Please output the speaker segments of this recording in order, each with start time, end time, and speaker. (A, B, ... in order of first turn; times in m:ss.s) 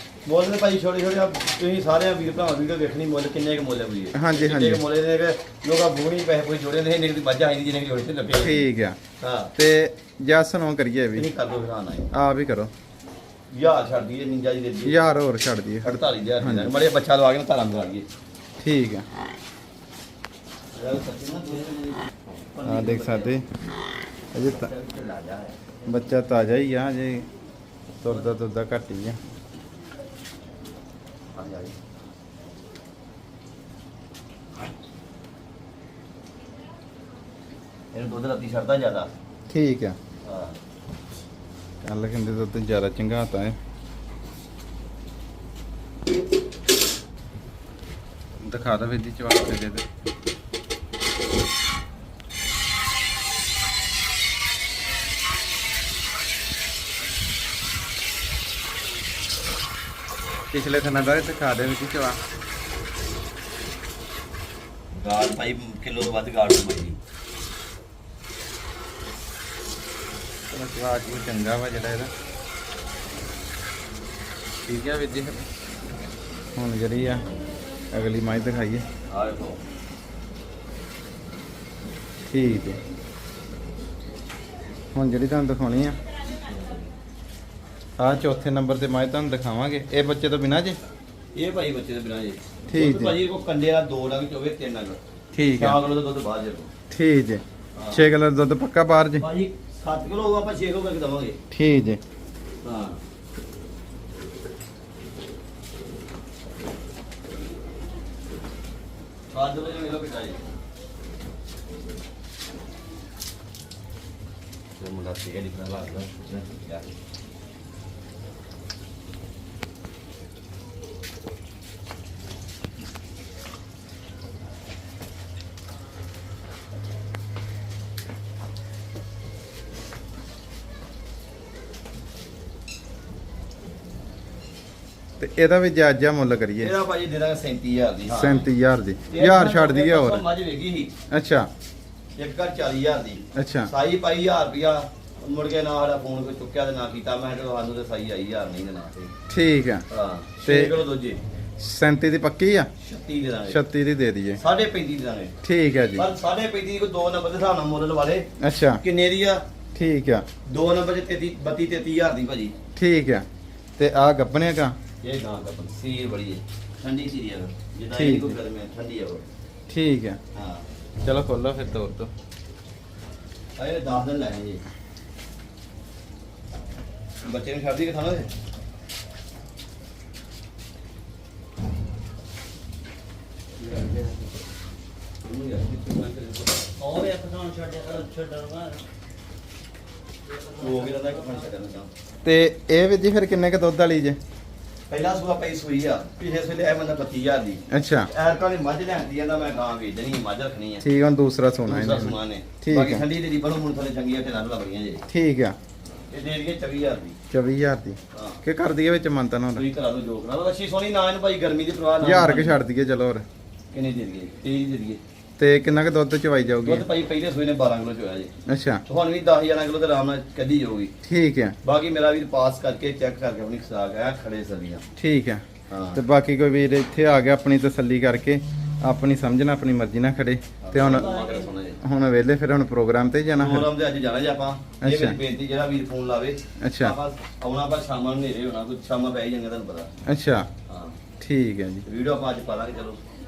0:00.3-0:08.7 A
0:04.1-0:04.8 B
0:08.4-0:09.0 B
0:09.2-0:09.6 A
0:09.6-0:11.3 B
0:11.2-0:12.1 A
0:12.1-0:12.7 B
0:13.5-0:15.0 A
0:14.8-0:16.7 B
0:15.8-0:18.1 A
0:18.6-0:19.1 B
0:20.7-0:23.4 A
0:22.6-0:23.5 B
0:24.3-0:24.7 B
0:24.5-0:25.6 A
0:25.9-0:27.3 B
0:28.0-0:29.2 B
0:31.4-0:31.8 A
0:37.9-0:39.1 A
0:39.5-0:40.0 B
0:40.2-0:40.6 A
0:41.8-0:43.6 B
0:48.4-0:49.9 B
1:00.5-1:02.2 B
1:04.9-1:07.0 A
1:10.5-1:12.1 B
1:14.7-1:15.4 B
1:16.6-1:17.2 B
1:17.9-1:18.9 B
1:19.1-1:19.6 A
1:22.3-1:22.8 B
1:24.9-1:26.0 B
1:26.4-1:26.9 A
1:28.0-1:30.8 B
1:31.3-1:35.0 A
1:32.7-1:33.2 B
1:35.3-1:35.8 B
1:35.5-1:36.7 A
1:36.9-1:39.3 B
1:37.8-1:38.1 A
1:39.2-1:41.4 A
1:41.5-1:42.0 B
1:42.6-1:43.0 A
1:49.3-1:50.4 A
1:54.8-1:56.9 A
2:15.2-2:16.7 B
2:16.6-2:18.5 A
2:18.1-2:20.3 B
2:19.1-2:20.9 A
2:21.1-2:21.5 B
2:22.2-2:29.1 A
2:23.4-2:23.7 B
2:29.3-2:29.9 B
2:29.9-2:31.2 A
2:30.4-2:30.7 B
2:31.6-2:32.7 B
2:32.8-2:33.6 A
2:33.5-2:34.4 B
2:34.4-2:35.4 A
2:35.4-2:36.1 B
2:36.0-2:38.3 A
2:38.4-2:38.8 B
2:38.8-2:39.4 A
2:39.8-2:40.3 B
2:40.5-2:42.5 A
2:42.8-2:43.3 B
2:43.8-2:44.8 B
2:45.0-2:49.2 A
2:47.9-2:48.4 B
2:49.7-2:50.2 B
2:50.4-2:50.7 A
2:51.0-2:52.1 B
2:53.6-2:54.6 A
2:57.2-2:58.3 A
3:03.6-3:04.2 A
3:05.2-3:07.0 A
3:06.8-3:08.8 C
3:10.5-3:11.9 A
3:12.2-3:14.2 B
3:14.9-3:20.8 A
3:17.7-3:18.1 B
3:20.8-3:23.0 B
3:21.7-3:25.0 A
3:25.1-3:25.6 B
3:26.1-3:27.2 A
3:27.3-3:29.6 B
3:28.1-3:28.4 A
3:29.6-3:32.6 A
3:32.0-3:33.2 B
3:33.7-3:35.0 A
3:35.4-3:36.8 B
3:36.6-3:38.3 A
3:38.5-3:38.8 B
3:38.9-3:40.9 A
3:41.0-3:41.6 B
3:41.6-3:44.8 A
3:45.0-3:45.4 B
3:45.7-3:46.0 A
3:46.0-3:51.2 B
3:50.6-3:51.8 A
3:51.8-3:53.7 B
3:53.3-3:59.9 A
3:54.8-3:55.2 B
3:56.6-3:57.0 B
4:00.1-4:00.5 B
4:00.7-4:01.0 A
4:01.2-4:01.8 B
4:01.9-4:03.0 A